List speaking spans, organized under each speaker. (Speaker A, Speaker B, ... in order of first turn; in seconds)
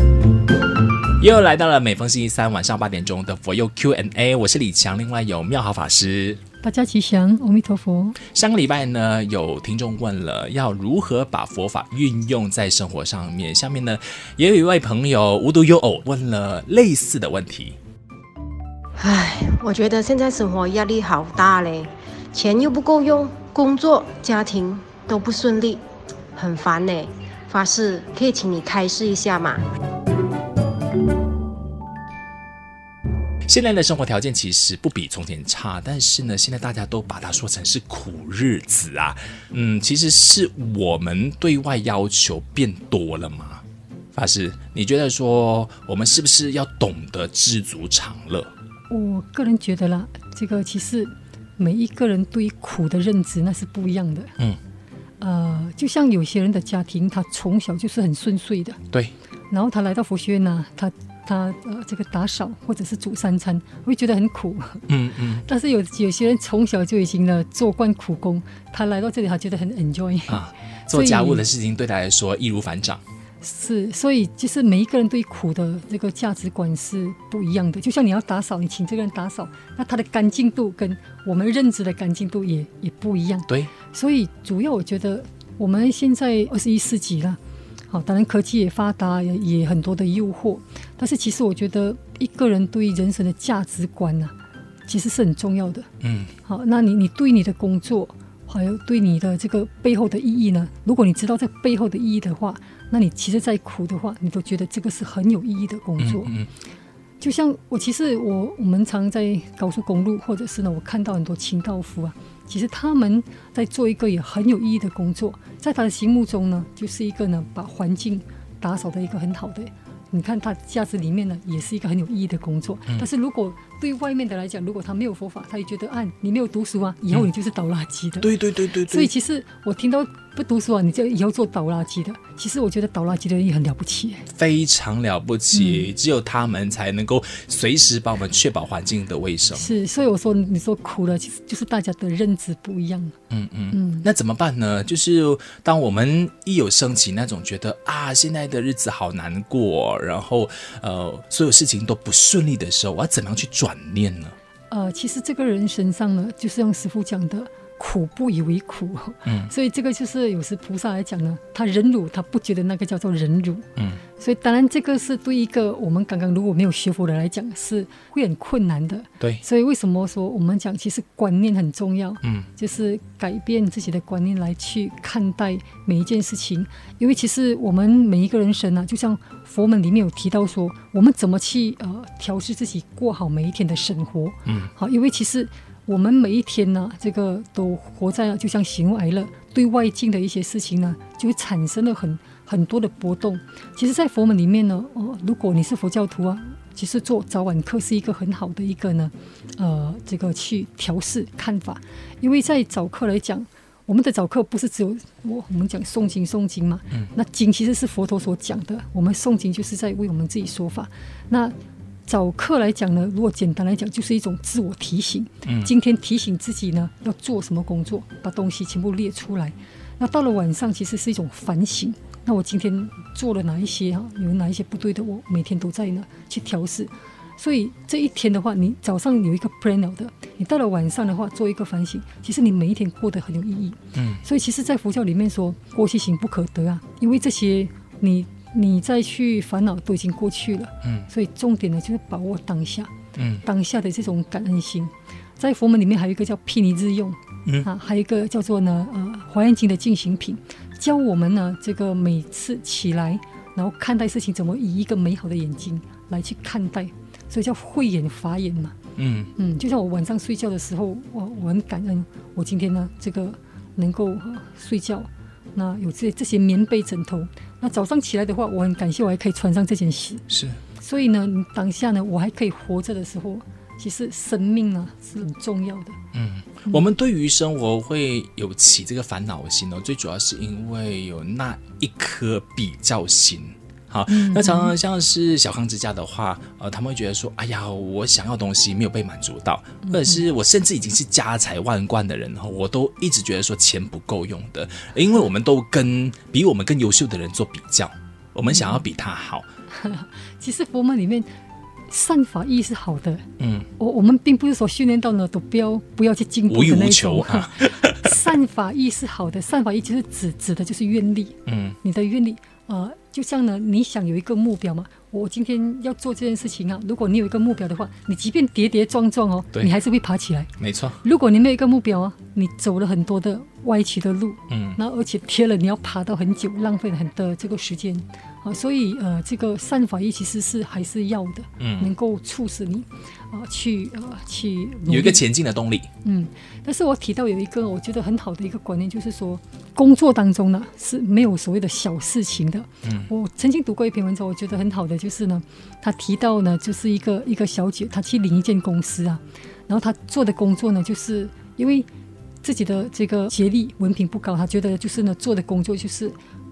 Speaker A: 1.2-6.4, 8.2-17.8, 33.5-43.6, 44.1-48.5, 64.9-65.4, 70.3-73.0, 96.0-96.3, 106.0-106.5, 128.2-129.1, 134.3-139.7, 143.3-154.3, 159.2-159.5, 172.2-172.5, 184.4-184.7, 215.4-215.7, 233.9-234.2, 243.1-243.4, 259.0-259.3, 270.3-270.6, 276.1-299.4, 303.4-303.7, 306.5-308.2, 311.4-311.8, 320.6-321.0, 324.5-324.8, 331.6-331.9, 334.9-335.9, 342.8-343.1
Speaker B: 6.6-8.2, 48.9-54.3, 55.2-58.8, 59.5-64.8, 65.4-71.4, 73.4-87.4, 87.9-94.3, 94.9-95.9, 96.4-106.3, 107.2-128.3, 128.8-134.3, 135.5-135.9, 139.5-143.1, 143.7-144.1, 154.7-163.7, 164.2-211.5, 212.1-242.9, 243.4-258.8, 259.4-270.2, 270.8-276.0, 284.1-284.7, 289.8-290.2, 298.5-298.8, 299.7-301.3, 301.9-303.2, 303.8-320.5, 321.0-335.2, 336.0-351.9, 352.4-356.1
Speaker C: 19.0-25.8, 26.4-29.6